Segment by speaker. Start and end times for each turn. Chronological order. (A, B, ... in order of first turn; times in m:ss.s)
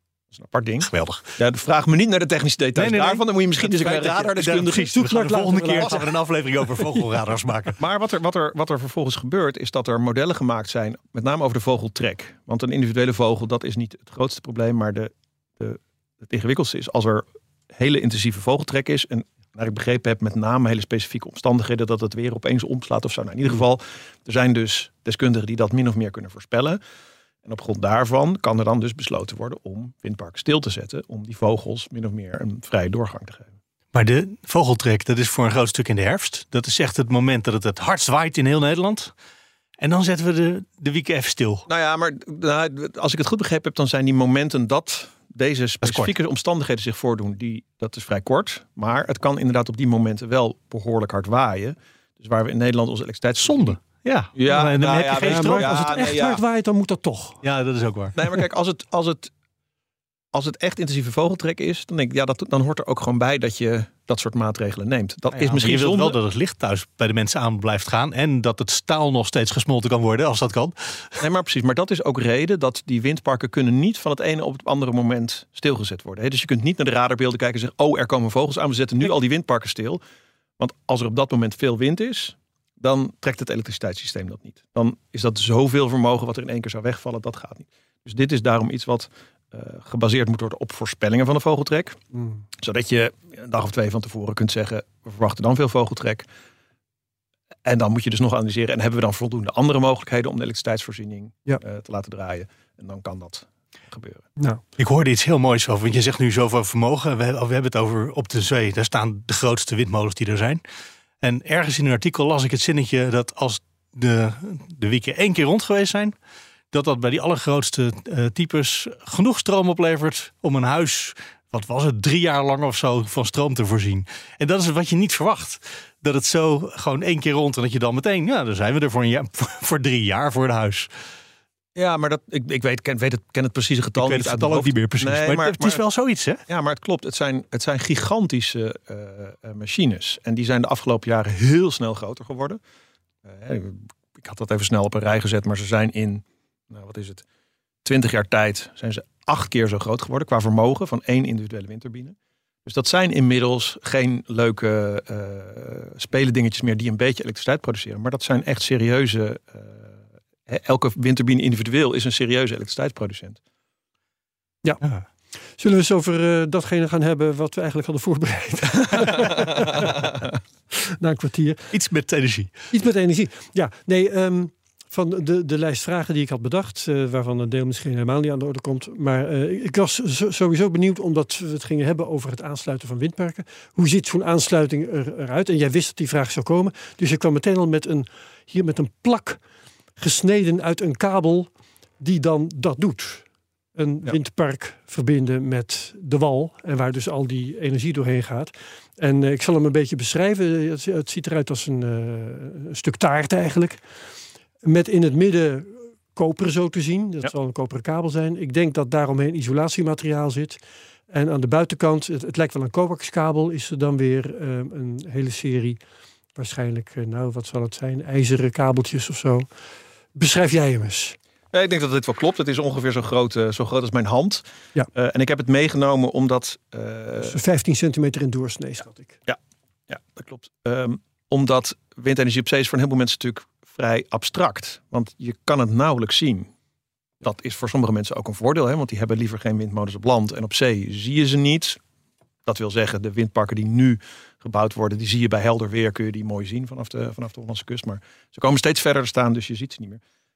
0:00.3-0:05.1 A
0:00.8-0:01.3 B
0:02.8-0:07.8 B
0:05.0-0:06.1 C
0:06.8-0:07.1 C
0:07.8-0:26.8 A
0:27.4-0:33.5 A
0:33.9-0:39.1 B
0:39.8-0:41.6 B
0:41.7-0:53.8 A
0:45.8-0:46.1 B
0:53.4-0:56.0 B
0:54.3-0:56.4 A
0:55.2-0:57.4 C
0:57.4-0:58.2 B
0:58.1-0:59.3 A
1:00.3-1:06.2 A
1:05.3-1:11.2 B
1:11.2-1:20.0 A
1:20.6-1:32.0 A
1:32.6-1:36.2 A
1:37.6-1:44.3 A
1:44.8-1:50.6 B
1:51.2-1:56.1 B
1:56.7-2:10.9 B
2:11.7-2:15.8 A
2:14.0-2:16.4 B
2:16.5-2:22.6 A
2:23.2-2:27.2 A
2:27.8-2:40.0 A
2:40.5-2:43.4 A
2:45.6-2:50.0 C
2:50.7-2:51.7 C
2:51.7-2:52.5 B
2:52.7-3:09.4 C
3:10.0-3:23.8 C
3:24.6-3:30.6 C
3:31.1-3:35.8 C
3:36.3-3:39.5 C
3:40.1-3:41.2 C
3:41.5-3:47.4 A
3:47.2-3:49.2 C
3:49.3-3:56.5 A
3:57.2-4:01.8 A
4:02.4-4:10.0 A